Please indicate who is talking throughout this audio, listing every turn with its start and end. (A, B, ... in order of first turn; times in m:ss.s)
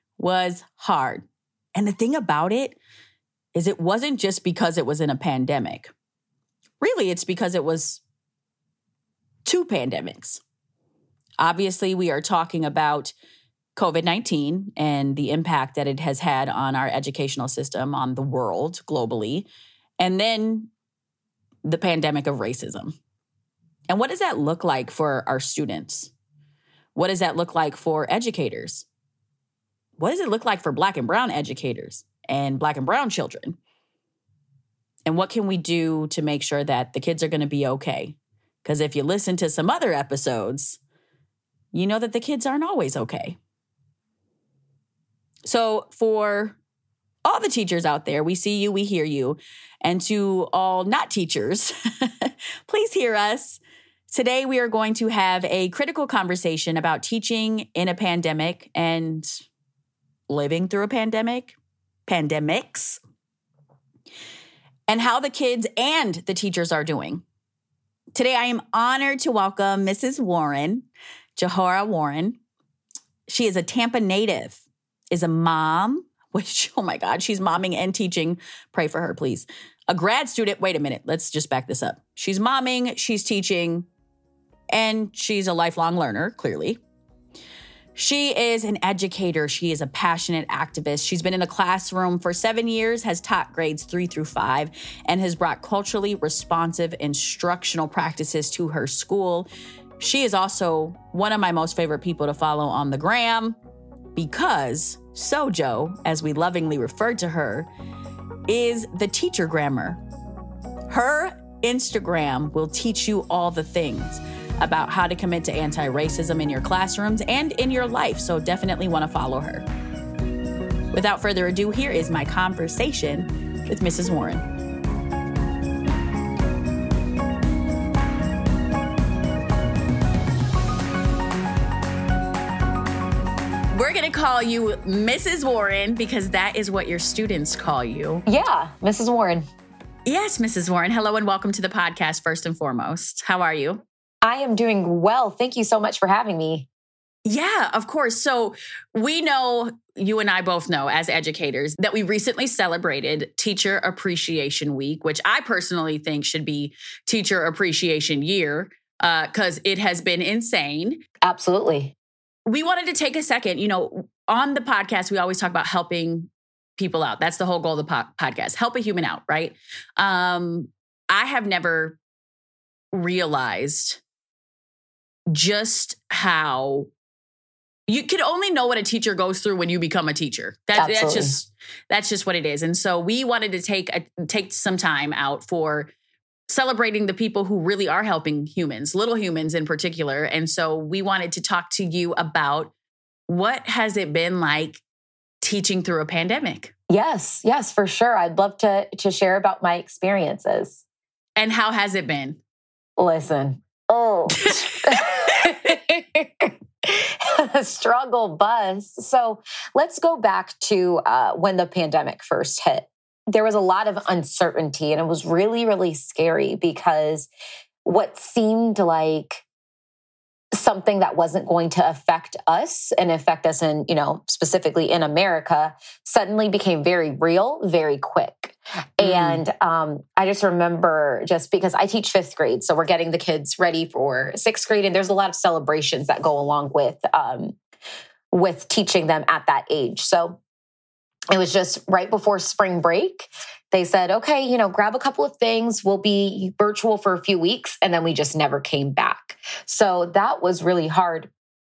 0:00.2-0:02.8 A
0:03.5-0:05.9 A
0:06.8-0:08.0 A
0:09.4-0:10.4 A
0:11.4-0:13.1 A
0:13.8-0:19.5 A
0:20.0-0:20.7 A
0:21.6-0:23.0 A
0:23.9-0:26.1 A
0:27.0-0:28.9 A
0:30.0-0:33.6 A
0:35.0-0:40.8 A
0:41.7-0:43.4 A
0:45.4-0:46.6 A
0:47.2-0:59.4 A
1:00.3-1:01.6 A
1:02.1-1:03.0 A
1:04.9-1:07.2 A
1:08.2-1:12.4 A
1:13.3-1:23.9 A
1:24.7-1:26.8 A
1:28.0-1:39.5 A
1:40.0-1:43.6 A
1:44.2-1:47.7 A
1:48.5-1:50.0 A
1:50.9-1:59.6 A
2:00.9-2:04.4 A
2:13.7-2:18.2 A
2:18.3-2:19.5 B
2:20.1-2:23.8 A
2:24.2-2:26.7 B
2:27.3-2:41.0 A
2:41.2-2:41.9 B
2:42.5-2:52.0 A
2:52.9-2:54.0 A
2:55.3-2:56.9 A
2:57.9-3:05.9 A
3:00.8-3:01.3 B
3:06.5-3:12.7 A
3:13.3-3:14.8 A
3:15.4-3:16.7 A
3:16.9-3:20.8 B
3:21.4-3:22.4 A
3:23.0-3:37.3 B
3:24.6-3:25.5 A
3:37.8-3:39.4 B
3:40.5-3:57.6 B
3:49.0-3:49.4 A
3:58.3-4:00.4 B
4:01.3-4:11.3 B